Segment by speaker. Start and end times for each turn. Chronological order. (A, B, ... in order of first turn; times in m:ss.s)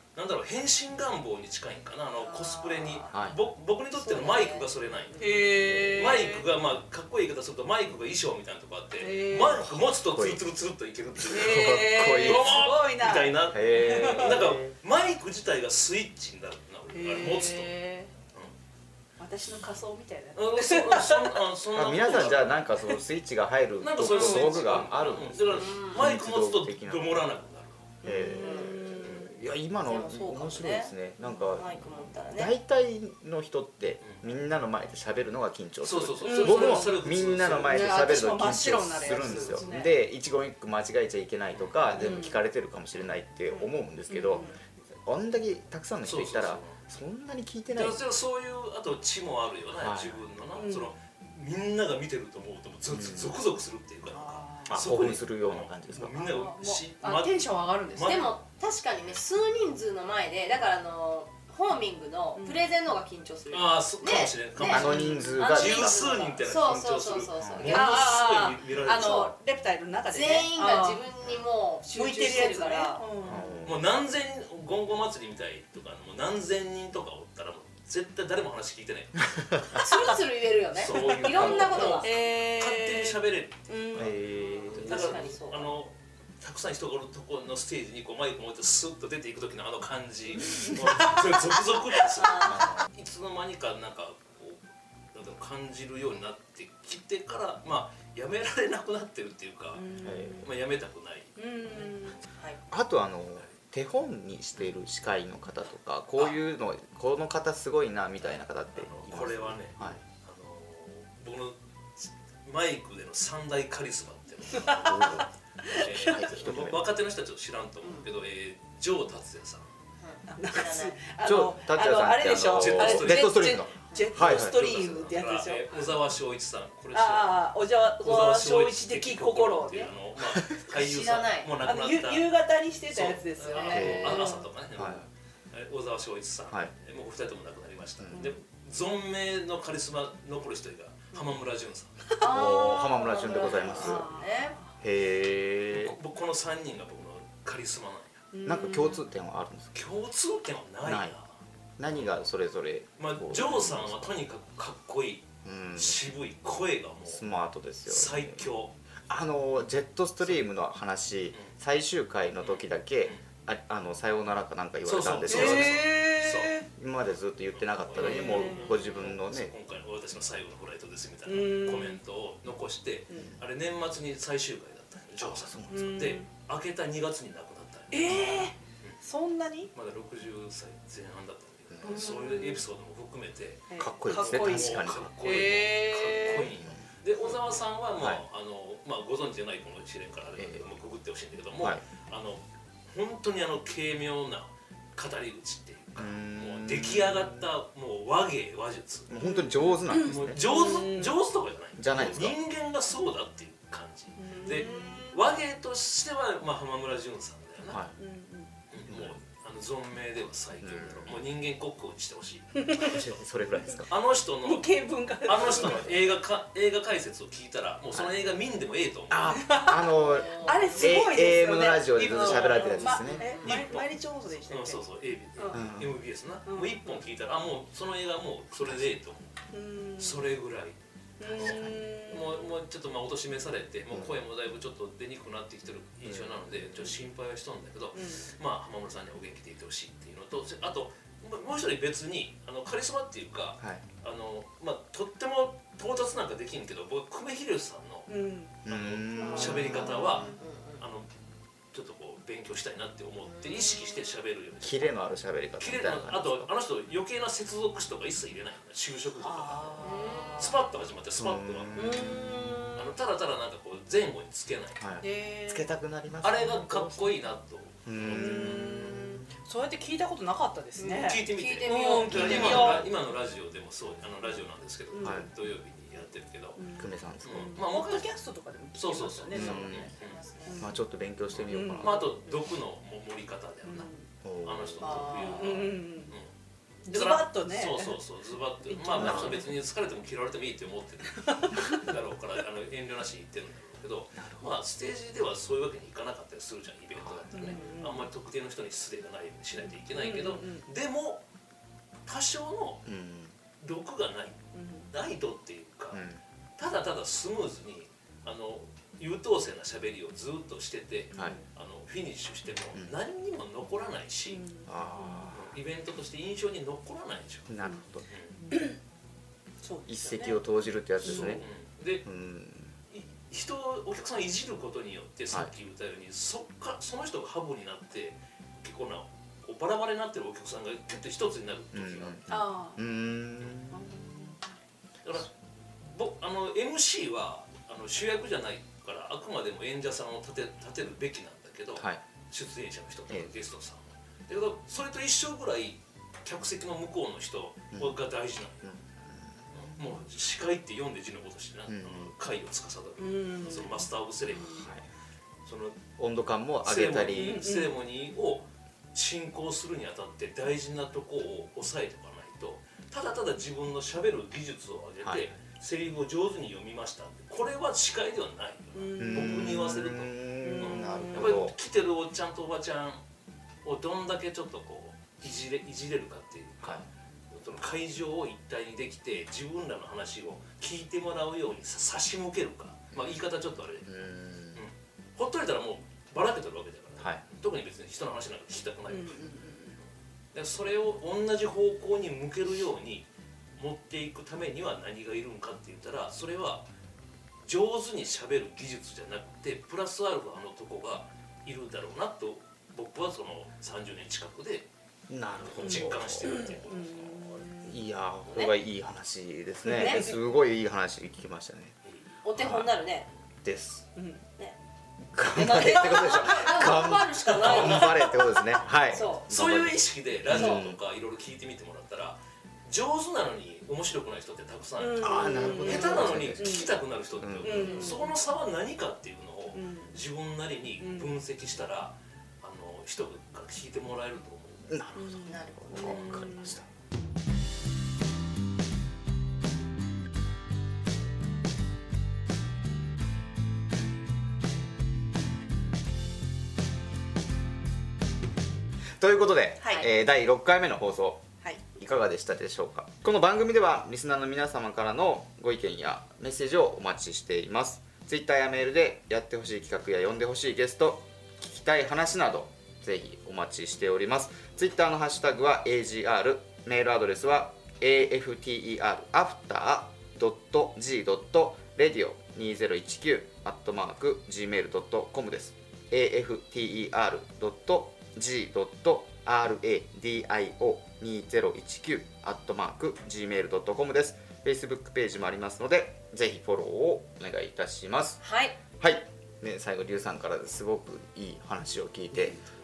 0:00.1-0:17.7 A
0:02.2-0:03.1 B
0:03.1-0:03.4 C
0:03.9-0:05.6 B
0:05.2-0:06.4 D
0:09.0-0:09.7 D
0:10.0-0:10.4 C
0:11.3-0:14.5 D
0:11.3-0:12.6 C
0:13.5-0:14.8 C
0:16.9-0:18.1 D
0:19.2-0:21.4 D
0:20.3-0:22.6 A
0:21.7-0:27.2 C
0:23.8-0:28.0 A
0:25.5-0:26.0 B
0:28.0-0:29.3 D
0:28.0-0:48.0 C
0:28.3-0:28.9 B
0:29.8-0:30.9 B
0:31.5-0:32.5 B
0:35.8-0:38.1 A
0:36.2-0:37.0 D
0:37.7-0:39.9 D
0:39.2-0:39.5 A
0:41.5-0:41.9 A
0:42.0-0:42.4 D
0:44.1-0:44.6 D
0:46.0-0:46.8 A
0:47.7-0:58.3 A
0:49.8-0:50.2 C
0:50.6-0:50.9 D
0:52.9-0:53.4 C
0:54.1-0:54.8 D
0:54.7-0:56.2 C
0:56.1-0:58.2 D
0:58.0-1:09.3 B
1:02.4-1:02.7 D
1:03.5-1:09.3 A
1:04.6-1:06.2 C
1:04.6-1:05.5 D
1:07.4-1:07.7 C
1:07.6-1:11.0 D
1:10.1-1:13.0 B
1:11.8-1:13.6 D
1:13.2-1:13.9 C
1:13.2-1:19.4 A
1:19.7-1:22.1 B
1:20.7-1:24.2 A
1:21.2-1:22.0 C
1:21.3-1:24.2 D
1:23.9-1:25.3 C
1:24.6-1:25.8 B
1:24.7-1:34.6 A
1:30.5-1:32.2 D
1:32.1-1:32.6 B
1:32.4-1:32.9 C
1:35.1-1:39.9 A
1:39.7-1:40.5 D
1:40.0-1:40.5 C
1:40.4-1:41.9 A
1:41.4-1:42.2 D
1:42.7-1:50.0 C
1:48.7-1:59.7 A
1:54.5-1:56.4 D
1:54.8-1:56.9 C
2:00.0-2:01.0 B
2:00.3-2:05.8 D
2:01.2-2:04.6 C
2:02.4-2:12.3 A
2:06.9-2:09.9 D
2:10.7-2:11.5 B
2:11.6-2:14.5 D
2:12.9-2:22.1 A
2:13.7-2:15.1 C
2:22.2-2:24.6 B
2:22.2-2:24.7 D
2:22.3-2:24.0 C
2:24.8-2:26.0 C
2:25.7-2:28.2 A
2:28.3-2:29.1 D
2:28.4-2:29.7 C
2:29.7-2:31.3 A
2:30.8-2:31.1 C
2:31.8-2:34.1 C
2:31.9-2:32.2 A
2:33.0-2:37.2 A
2:35.4-2:36.0 C
2:37.1-2:38.5 C
2:37.8-2:38.7 A
2:39.1-2:45.9 C
2:42.4-2:43.2 A
2:44.8-2:46.6 A
2:45.3-2:46.6 D
2:46.8-2:49.5 C
2:47.6-2:59.0 A
2:47.9-2:48.9 D
2:51.2-2:52.0 D
2:55.2-2:55.9 C
2:55.7-2:56.3 D
2:57.9-2:59.7 D
2:59.7-3:19.2 A
3:01.7-3:02.0 C
3:01.8-3:02.6 D
3:03.7-3:06.6 D
3:03.8-3:05.4 C
3:06.5-3:06.9 C
3:10.4-3:10.7 C
3:16.0-3:17.5 C
3:19.1-3:20.7 C
3:19.2-3:21.2 D
3:19.9-3:27.8 A
3:21.8-3:22.4 C
3:24.2-3:25.2 D
3:27.7-3:28.0 C
3:28.0-3:28.5 D
3:28.7-3:33.2 A
3:28.9-3:29.2 C
3:30.6-3:31.2 C
3:32.6-3:33.0 D
3:32.7-3:33.9 C
3:33.9-3:39.4 A
3:34.4-3:36.1 D
3:39.1-3:43.8 C
3:39.3-3:44.8 D
3:40.0-3:41.0 B
3:42.1-3:49.3 A
3:42.9-3:43.4 B
3:45.4-3:45.6 D
3:45.5-3:46.0 C
3:46.4-3:47.0 D
3:48.6-3:48.8 C
3:49.5-3:50.2 D
3:50.0-4:08.1 A
3:51.2-3:52.6 D
3:51.3-3:51.8 C
3:56.0-3:56.9 C
3:57.9-3:58.3 D
4:08.1-4:08.5 D
4:08.6-4:10.1 C
4:08.6-4:11.1 A
4:09.1-4:10.3 D
4:09.9-4:10.8 B
4:11.7-4:15.0 A
4:13.3-4:14.0 B
4:14.6-4:16.5 C
4:15.6-4:24.8 A
4:19.2-4:20.6 D
4:19.8-4:20.5 B
4:21.2-4:22.4 C
4:21.8-4:22.9 D
4:24.8-4:27.1 C
4:25.0-4:25.7 D
4:26.2-4:28.5 A
4:27.8-4:29.3 C
4:28.0-4:32.9 D
4:30.8-4:32.8 B
4:30.8-4:36.6 A
4:32.1-4:32.9 C
4:34.9-4:35.3 D
4:35.0-4:35.3 C
4:36.6-4:39.9 D
4:36.8-4:37.5 C
4:37.2-4:38.1 A
4:38.7-4:40.2 A
4:39.3-4:39.9 C
4:39.8-4:40.6 B
4:40.4-4:40.8 D
4:40.6-4:42.2 C
4:41.3-4:43.9 A
4:41.4-4:42.3 D
4:43.6-4:44.0 D
4:44.2-4:45.3 C
4:44.4-4:46.3 A
4:44.8-4:46.1 D
4:45.0-4:45.6 B
4:46.8-5:01.2 A
4:46.9-4:48.0 D
4:48.7-4:49.5 D
4:48.9-4:49.5 C
4:51.2-4:51.8 D
4:54.2-4:54.5 C
4:57.0-4:57.4 C
4:57.3-4:58.1 D
4:59.6-5:00.6 D
5:02.0-5:02.8 A
5:02.8-5:03.3 C
5:03.6-5:06.0 A
5:04.5-5:04.9 D
5:05.9-5:06.2 C
5:06.6-5:14.4 A
5:11.1-5:11.4 C
5:11.1-5:11.4 D
5:14.3-5:15.3 D
5:14.6-5:15.5 C
5:15.3-5:17.5 A
5:17.5-5:18.1 C
5:18.1-5:18.4 A
5:18.5-5:18.8 D
5:19.6-5:20.4 D
5:19.9-5:21.4 C
5:21.0-5:21.4 D
5:21.0-5:22.0 A
5:22.0-5:22.7 C
5:22.9-5:32.2 A
5:31.7-5:33.9 C
5:32.3-5:32.8 D
5:33.7-5:34.4 D
5:35.0-5:35.3 A
5:35.8-5:48.7 A
5:48.6-5:49.5 C
5:49.5-5:54.7 A
5:51.7-5:52.1 C
5:53.0-5:54.7 D
5:54.4-5:54.8 C
5:55.4-5:55.8 A
5:56.0-5:57.4 C
5:56.6-6:13.0 A
5:57.1-5:57.7 D
6:05.0-6:05.3 C
6:08.7-6:09.7 D
6:09.0-6:11.5 C
6:10.4-6:11.4 D
6:13.6-6:23.9 A
6:23.8-6:24.6 C
6:24.5-6:29.3 A
6:28.9-6:29.8 D
6:30.3-6:36.7 A
6:37.4-6:44.7 A
6:45.1-6:46.5 C
6:45.4-6:47.5 A
6:45.6-6:47.8 D
6:47.6-6:51.8 C
6:49.6-6:50.2 D
6:49.7-6:50.0 B
6:51.8-6:52.1 A
6:52.2-6:53.1 B
6:52.3-6:52.7 C
6:53.4-6:53.9 C
6:54.0-6:54.2 D
6:55.1-7:00.8 C
6:55.3-6:58.0 B
6:55.6-6:56.4 D
6:57.4-6:58.0 A
6:58.9-6:59.3 B
6:58.9-7:14.8 A
7:00.3-7:00.6 B
7:04.8-7:06.7 D
7:05.0-7:07.9 C
7:07.4-7:08.2 D
7:09.5-7:10.0 D
7:10.8-7:11.1 D
7:14.7-7:16.6 C
7:15.0-7:16.6 D
7:15.2-7:16.1 B
7:29.0-8:08.2 C
7:29.6-7:29.9 B
8:08.2-8:08.6 B
8:08.8-8:12.4 C